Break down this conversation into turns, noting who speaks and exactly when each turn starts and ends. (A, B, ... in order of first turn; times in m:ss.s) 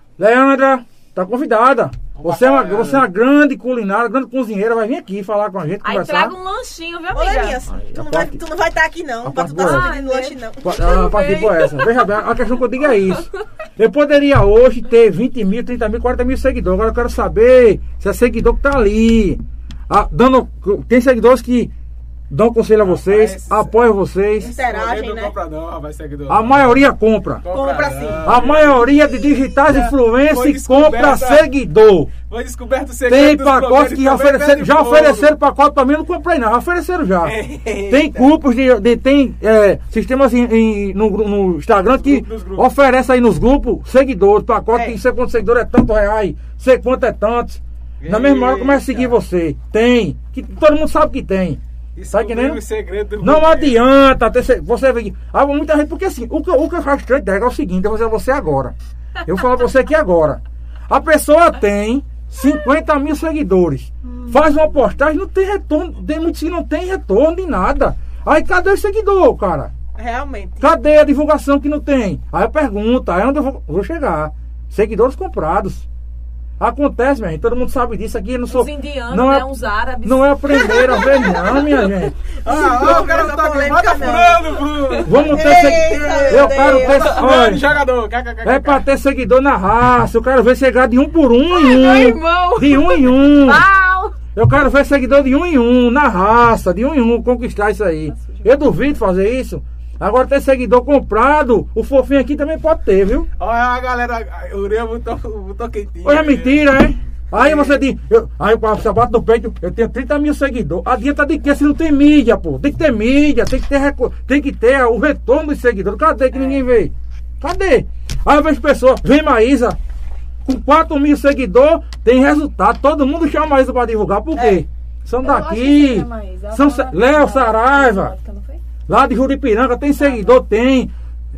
0:00.2-0:06.3 A
0:02.1-0:03.0 B
0:05.8-0:07.6 C
0:07.1-0:10.8 D
0:07.7-0:08.4 A
0:09.2-0:09.9 A
0:09.6-0:12.0 C
0:10.6-0:21.7 A
0:22.3-0:24.5 A
0:22.8-0:23.7 B
0:24.4-0:25.3 D
0:24.4-0:26.8 B
0:26.3-0:27.4 A
0:27.4-0:28.8 B
0:27.5-0:28.3 D
0:28.2-0:32.1 A
0:29.7-0:31.4 B
0:32.3-0:35.3 B
0:33.1-0:51.6 A
0:37.2-0:38.3 B
0:42.0-0:42.7 B
0:44.7-0:45.0 D
0:48.0-0:49.2 B
0:52.0-0:53.8 B
0:52.1-0:52.6 A
0:53.2-1:09.7 A
1:10.0-1:10.7 D
1:10.6-1:15.8 A
1:16.6-1:19.5 A
1:18.5-1:21.9 C
1:20.0-1:22.2 A
1:20.9-1:21.3 D
1:22.4-1:28.8 B
1:22.4-1:24.5 D
1:24.8-1:25.0 C
1:25.0-1:27.6 A
1:25.3-1:27.3 D
1:28.4-1:33.6 A
1:31.5-1:34.2 C
1:34.3-1:43.3 A
1:38.1-1:38.7 C
1:43.4-1:46.7 B
1:46.0-1:59.8 A
1:47.3-1:47.8 B
2:00.4-2:08.1 A
2:04.3-2:04.6 D
2:05.2-2:08.6 C
2:08.9-2:10.9 A